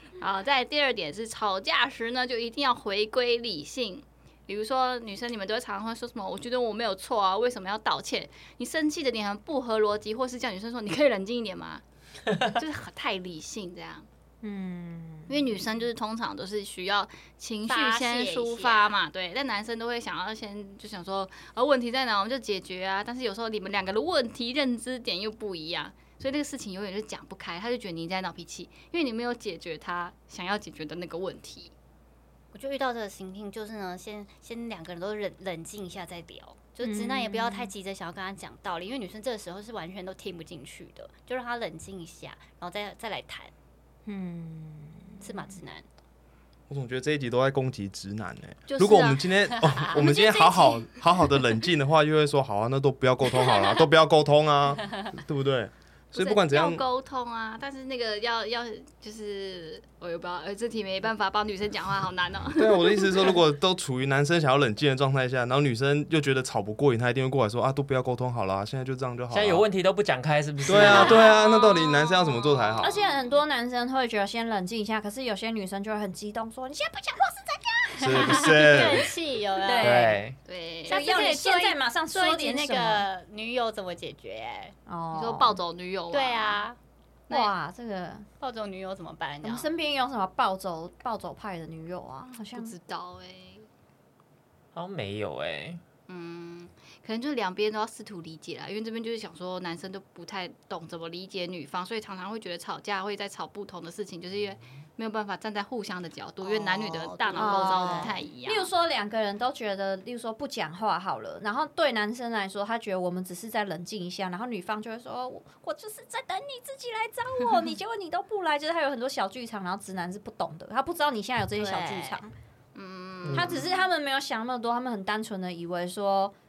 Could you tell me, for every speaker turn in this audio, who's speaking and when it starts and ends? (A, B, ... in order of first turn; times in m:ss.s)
0:00.2-0:11.8 A
0:12.4-0:14.1 A
0:14.4-0:15.7 B
0:15.3-0:31.7 A
0:17.7-0:18.9 C
0:32.5-0:43.5 C
0:36.8-0:37.7 B
0:44.0-0:45.6 B
0:45.2-0:45.8 C
0:46.7-0:56.8 D
0:48.7-0:49.3 A
0:49.5-0:50.1 C
0:49.9-0:50.9 A
0:53.3-0:53.8 A
0:56.1-1:03.4 A
1:02.6-1:09.6 D
1:09.3-1:11.3 E
1:10.6-1:12.9 D
1:10.8-1:13.0 A
1:12.8-1:18.8 B
1:18.0-1:19.1 D
1:18.1-1:20.0 C
1:19.6-1:20.2 B
1:19.8-1:20.4 E
1:20.5-1:21.2 A
1:20.9-1:23.0 B
1:20.9-1:24.7 C
1:24.8-1:25.6 B
1:25.1-1:26.6 A
1:26.1-1:26.8 C
1:27.3-1:28.3 B
1:28.4-1:29.7 C
1:29.4-1:32.7 B
1:32.5-1:33.6 A
1:34.7-1:35.8 E
1:36.1-1:48.7 A
1:46.4-1:48.2 C
1:47.4-2:02.3 B
2:01.5-2:02.2 C
2:02.7-2:03.7 A
2:03.3-2:06.3 B